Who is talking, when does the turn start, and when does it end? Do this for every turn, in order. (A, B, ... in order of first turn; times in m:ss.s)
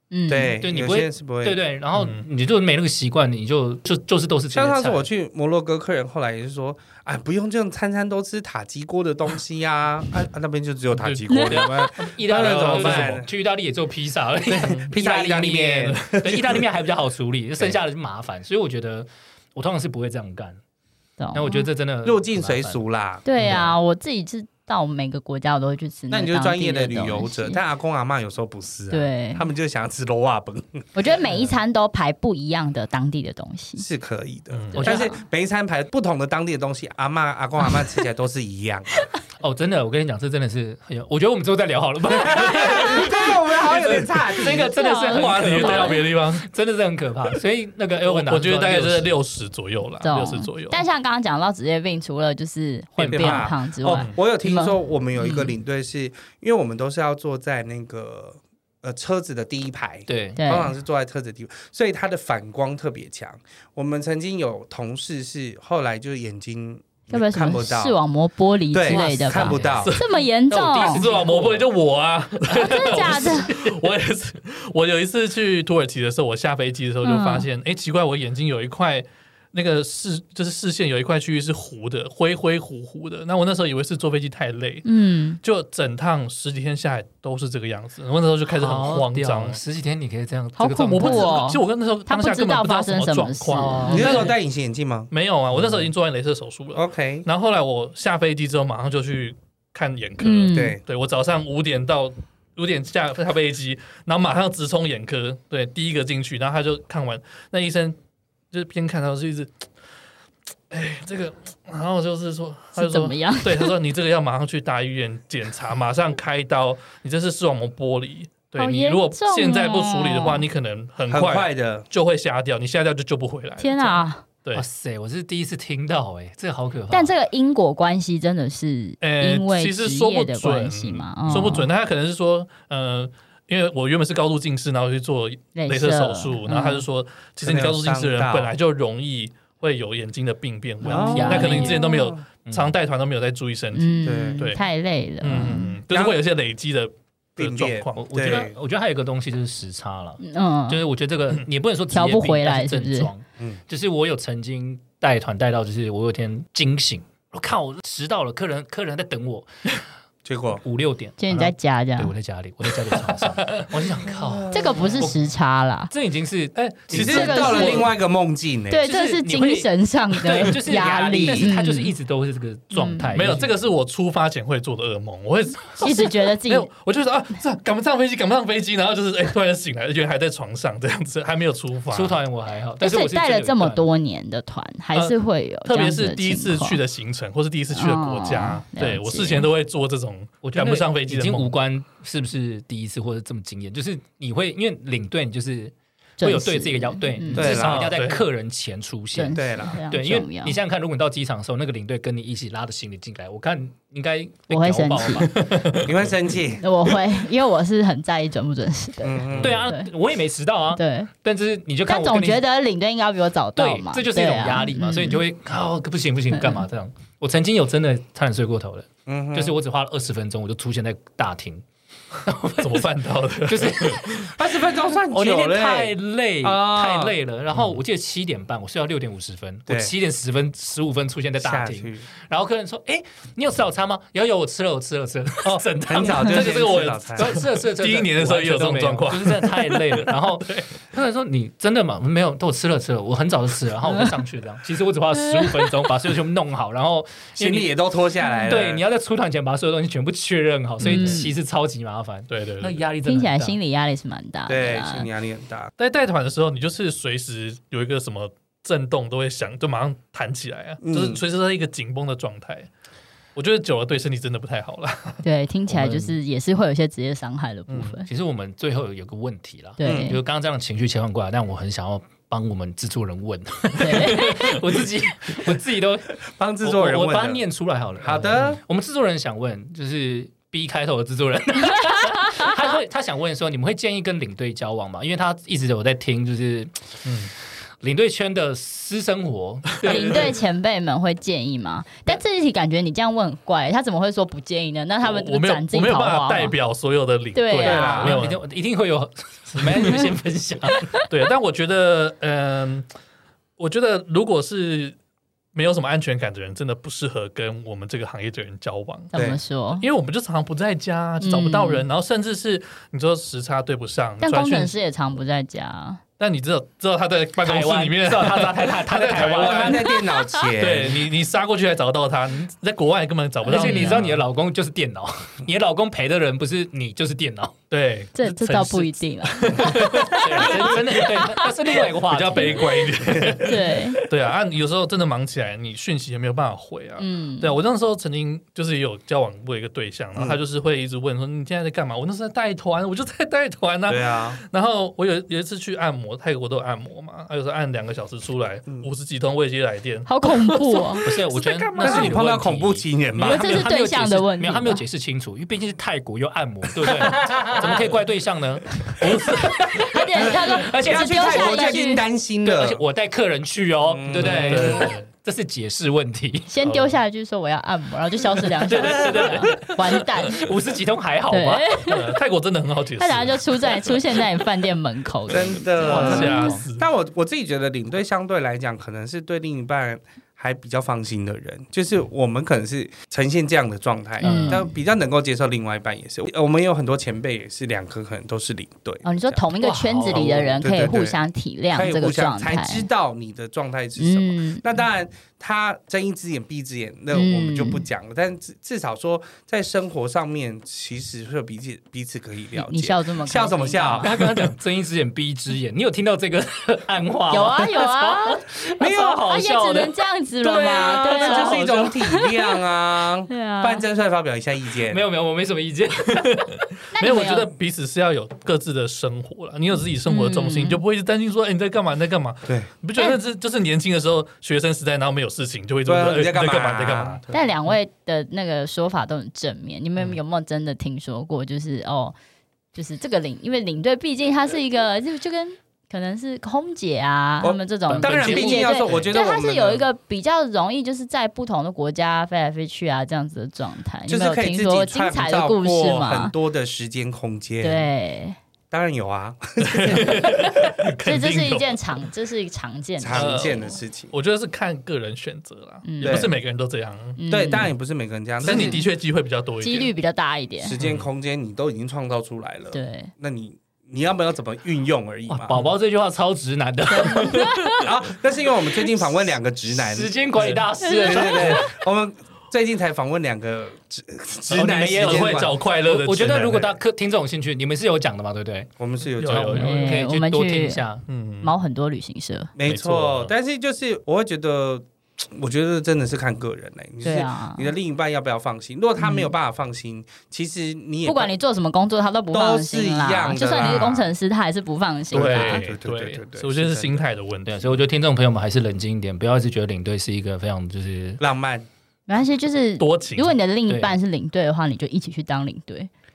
0:00.1-0:00.6 A
0:00.3-0:01.6 B
0:00.5-0:05.1 C
0:01.9-0:02.2 D
0:04.5-0:13.3 B
0:10.9-0:13.2 D
0:11.3-0:11.6 A
0:11.4-0:20.6 C
0:14.5-0:16.6 B
0:14.6-0:14.9 D
0:21.2-0:21.7 A
0:21.3-0:22.8 C
0:22.0-0:23.2 B
0:23.2-0:27.6 A
0:23.4-0:23.8 C
0:26.1-0:30.9 B
0:28.9-0:29.4 A
0:30.9-0:33.8 A
0:33.8-0:39.0 B
0:34.5-0:34.8 D
0:34.7-0:35.1 C
0:34.8-0:35.2 A
0:39.4-0:49.1 C
0:42.1-0:44.7 B
0:43.7-0:44.0 D
0:44.5-0:46.0 A
0:45.0-0:46.5 D
0:48.0-0:50.8 D
0:50.0-0:55.5 A
0:53.0-0:53.5 C
0:53.1-1:08.0 B
1:00.1-1:00.4 C
1:00.4-1:00.7 A
1:07.1-1:11.0 A
1:08.7-1:09.9 B
1:08.9-1:09.9 C
1:09.8-1:24.8 D
1:10.5-1:11.7 C
1:12.5-1:13.5 A
1:12.7-1:13.4 C
1:17.0-1:17.5 A
1:24.8-1:25.4 A
1:25.4-1:29.6 D
1:28.5-1:31.4 C
1:30.6-1:34.3 A
1:30.9-1:34.4 D
1:33.5-1:34.3 C
1:33.9-1:35.9 B
1:35.1-1:48.0 D
1:36.7-1:37.2 B
1:40.2-1:40.8 A
1:40.5-1:40.8 B
1:48.5-1:49.5 D
1:50.7-2:04.6 D
1:52.8-1:53.7 A
1:58.6-2:00.4 A
2:01.1-2:01.8 B
2:03.6-2:04.2 A
2:04.5-2:07.1 C
2:06.9-2:11.7 A
2:09.0-2:24.6 D
2:15.5-2:16.8 A
2:17.4-2:18.5 B
2:20.8-2:22.0 A
2:20.8-2:22.2 B
2:21.1-2:21.8 C
2:22.4-2:22.7 C
2:23.7-2:25.8 A
2:24.0-2:24.5 B
2:25.2-2:28.5 D
2:25.9-2:26.2 B
2:27.4-2:28.5 B
2:28.0-2:39.7 C
2:30.2-2:30.8 A
2:31.9-2:33.1 A
2:40.2-2:40.6 B
2:40.6-2:45.3 C
2:41.2-2:42.1 A
2:42.9-2:43.6 D
2:44.1-2:45.1 B
2:44.5-2:45.9 A
2:45.9-2:47.9 C
2:46.5-2:47.6 D
2:46.9-2:48.8 B
2:46.9-2:47.9 A
2:48.7-2:51.9 A
2:48.8-2:53.5 C
2:50.6-2:51.5 B
2:52.7-2:53.1 A
2:53.1-3:02.2 D
2:55.8-2:56.7 A
3:01.9-3:03.8 C
3:02.8-3:06.8 A
3:04.9-3:11.5 D
3:07.7-3:09.5 A
3:10.4-3:25.5 C
3:16.2-3:17.6 A
3:17.3-3:17.9 B
3:17.4-3:18.2 D
3:19.1-3:20.6 A
3:19.3-3:19.8 B
3:24.5-3:25.3 A
3:25.3-3:26.0 D
3:25.8-3:26.6 B
3:26.6-3:29.9 A
3:29.0-3:29.6 B
3:29.3-3:32.4 C
3:30.7-3:31.1 A
3:31.8-3:35.2 A
3:33.6-3:41.6 C
3:36.3-3:36.6 A
3:39.1-3:39.6 B
3:42.2-4:07.7 C
3:42.6-3:44.3 D
3:44.3-3:47.2 B
3:49.7-3:49.9 B
3:51.4-3:52.1 B
3:55.4-4:00.7 D
3:55.9-3:57.3 B
4:05.2-4:05.8 A
4:07.4-4:08.8 B
4:08.5-4:13.6 C
4:10.8-4:11.2 A
4:10.9-4:11.2 B
4:12.3-4:12.8 D
4:13.0-4:15.1 A
4:14.5-4:15.7 B
4:15.8-4:22.7 D
4:20.8-4:21.2 B
4:23.4-4:25.2 D
4:25.2-4:28.1 A
4:25.7-4:26.2 C
4:27.7-4:27.9 D
4:28.0-4:47.0 C
4:29.8-4:30.2 A
4:29.8-4:30.2 B
4:33.8-4:34.6 A
4:36.3-4:37.4 B
4:38.0-4:38.6 B
4:47.0-4:47.3 D
4:47.8-4:50.4 C
4:49.8-4:56.5 A
4:55.0-4:58.4 D
4:57.3-4:58.2 A
4:57.6-4:58.2 B
4:58.0-5:00.9 C
4:59.6-5:00.0 D
5:01.1-5:02.9 D
5:03.6-5:05.0 D
5:05.5-5:09.1 D
5:09.1-5:09.8 A
5:09.1-5:09.4 B
5:09.7-5:14.8 D
5:11.2-5:11.8 A
5:14.2-5:16.0 A
5:16.2-5:24.2 D
5:17.4-5:19.9 C
5:19.2-5:21.1 B
5:23.4-5:27.6 C
5:23.5-5:24.0 A
5:27.7-5:52.2 D
5:28.1-5:31.4 A
5:29.6-5:33.4 C
5:33.1-5:33.4 B
5:33.4-5:34.0 A
5:37.0-5:37.6 A
5:43.9-5:44.4 B
5:50.1-5:51.0 A
5:51.0-6:06.5 C
5:51.8-5:53.6 B
5:53.2-5:54.8 A
5:56.8-5:57.1 B
5:59.1-5:59.6 D
5:59.9-6:02.0 A
6:00.7-6:02.8 B
6:03.9-6:04.9 B
6:04.1-6:05.1 D
6:06.5-6:10.4 A
6:08.4-6:11.6 C
6:08.8-6:09.4 D
6:11.3-6:12.1 A
6:11.8-6:14.2 D
6:13.0-6:16.5 A
6:15.3-6:29.4 B
6:15.8-6:16.6 C
6:15.8-6:16.8 D
6:24.2-6:24.7 A
6:24.2-6:24.6 C
6:29.0-6:32.9 A
6:29.6-6:30.5 C
6:30.0-6:31.2 B
6:31.7-6:44.2 B
6:34.0-6:34.6 A
6:37.1-6:37.8 A
6:42.6-6:44.1 A
6:44.0-6:49.9 C
6:44.2-6:44.5 D
6:47.3-6:52.5 A
6:50.4-6:55.0 B
6:51.1-6:51.9 C
6:53.3-6:53.8 A
6:54.9-6:56.5 C
6:56.1-7:07.2 D
6:56.9-6:57.5 A
7:00.0-7:00.8 A
7:05.9-7:07.5 B
7:07.3-7:12.1 A
7:12.7-7:26.3 A
7:17.4-7:19.9 B
7:17.9-7:19.1 C
7:24.1-7:27.9 B
7:27.6-7:28.4 A
7:28.7-7:30.3 B
7:29.6-7:31.8 D
7:31.0-7:33.8 A
7:33.0-7:34.1 B
7:33.1-7:37.2 D
7:35.8-7:36.3 A
7:36.0-7:36.3 B
7:37.2-7:37.7 A
7:37.3-7:38.8 B
7:38.4-7:39.9 D
7:38.4-7:38.8 A
7:39.6-7:40.8 A
7:40.6-7:45.6 B
7:40.8-7:41.1 D
7:42.7-7:43.1 A
7:45.3-7:47.5 C
7:46.9-7:47.9 A
7:47.8-7:55.5 B
7:48.7-7:51.7 C
7:50.8-7:51.7 A
7:54.5-7:58.7 C
7:54.7-7:56.7 D
7:58.8-7:59.7 B
7:59.2-7:59.8 D
7:59.4-8:01.0 C
7:59.5-8:00.8 A
8:01.1-8:01.5 D
8:01.4-8:02.5 A
8:02.6-8:11.3 B
8:02.6-8:03.3 D
8:07.0-8:07.7 A
8:09.0-8:09.3 A
8:11.0-8:15.6 A
8:12.3-8:14.0 B
8:13.5-8:14.1 D
8:15.1-8:17.0 B
8:15.1-8:17.8 D
8:17.4-8:21.2 C
8:21.2-8:21.7 B
8:22.1-8:25.9 A
8:22.8-8:23.4 D
8:23.7-8:24.0 C